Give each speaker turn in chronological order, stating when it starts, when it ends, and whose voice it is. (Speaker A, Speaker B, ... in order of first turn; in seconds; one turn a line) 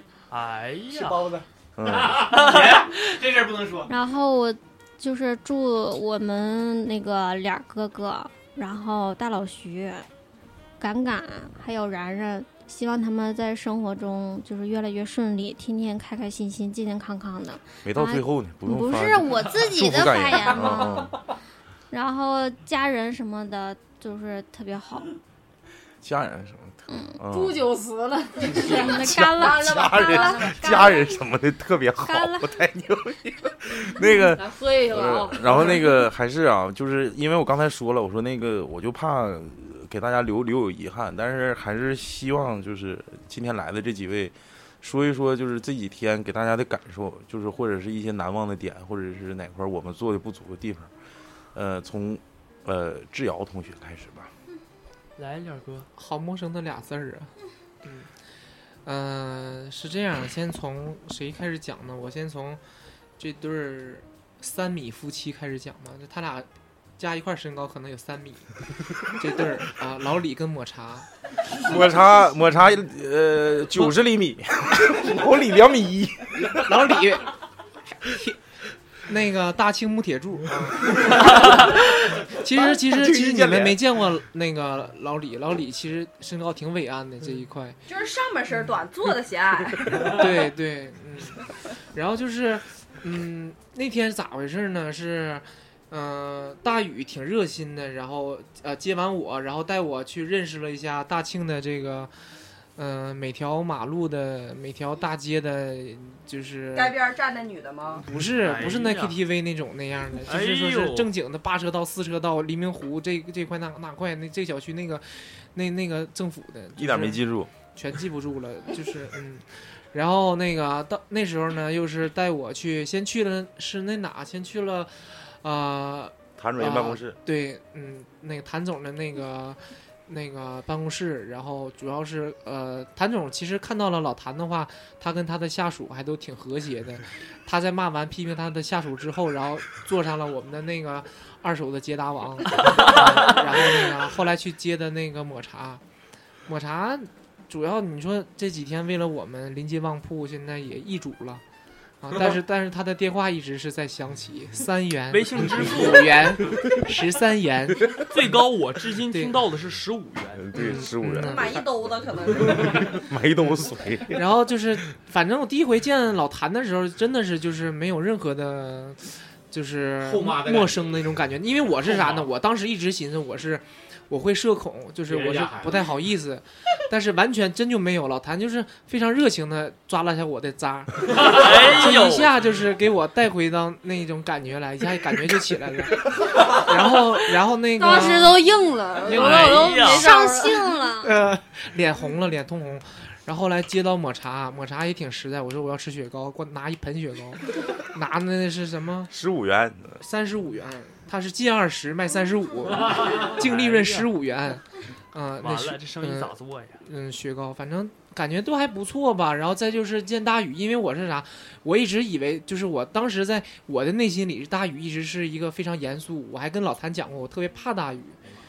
Speaker A: 0.3-1.3
Speaker B: 0.9-3.9
Speaker C: 1.8-2.4
Speaker D: 3.9-10.1
Speaker D: 10.8-21.1
Speaker C: 17.8-21.2
Speaker D: 21.9-25.1
Speaker C: 26.0-27.6
Speaker D: 26.9-27.2
Speaker E: 27.3-29.1
Speaker D: 28.5-31.2
Speaker C: 28.7-50.9
Speaker F: 29.4-30.9
Speaker D: 32.0-32.5
Speaker E: 33.8-35.9
Speaker C: 51.5-54.3
Speaker A: 55.2-55.9
Speaker G: 56.0-57.3
Speaker G: 57.8-58.1
Speaker G: 58.9-62.6
Speaker G: 63.2-66.5
Speaker G: 67.0-68.5
Speaker G: 69.1-71.1
Speaker C: 71.5-77.0
Speaker G: 76.4-77.3
Speaker G: 78.1-78.4
Speaker G: 79.1-87.8
Speaker C: 82.6-83.8
Speaker F: 87.9-90.4
Speaker G: 90.0-91.4
Speaker G: 91.9-102.1
Speaker G: 102.8-107.0
Speaker F: 106.7-108.0
Speaker G: 108.0-117.2
Speaker A: 108.1-109.2
Speaker A: 110.2-111.1
Speaker C: 116.8-117.5
Speaker G: 117.7-145.8
Speaker C: 126.4-127.2
Speaker A: 142.6-143.4
Speaker G: 146.5-151.4
Speaker G: 152.0-157.9
Speaker A: 155.1-156.5
Speaker A: 157.9-160.7
Speaker G: 159.1-159.4
Speaker C: 160.3-161.6
Speaker G: 160.5-161.7
Speaker F: 161.1-163.1
Speaker C: 162.5-164.2
Speaker G: 164.1-188.4
Speaker B: 170.0-171.0
Speaker B: 171.9-172.2
Speaker B: 175.1-175.8
Speaker A: 181.1-182.4
Speaker E: 187.7-190.8
Speaker A: 189.0-190.1
Speaker B: 189.2-189.6
Speaker D: 189.7-191.1
Speaker G: 191.0-199.1
Speaker C: 199.1-200.0
Speaker G: 200.0-206.3
Speaker A: 202.9-204.1
Speaker A: 205.4-206.8
Speaker G: 206.8-218.2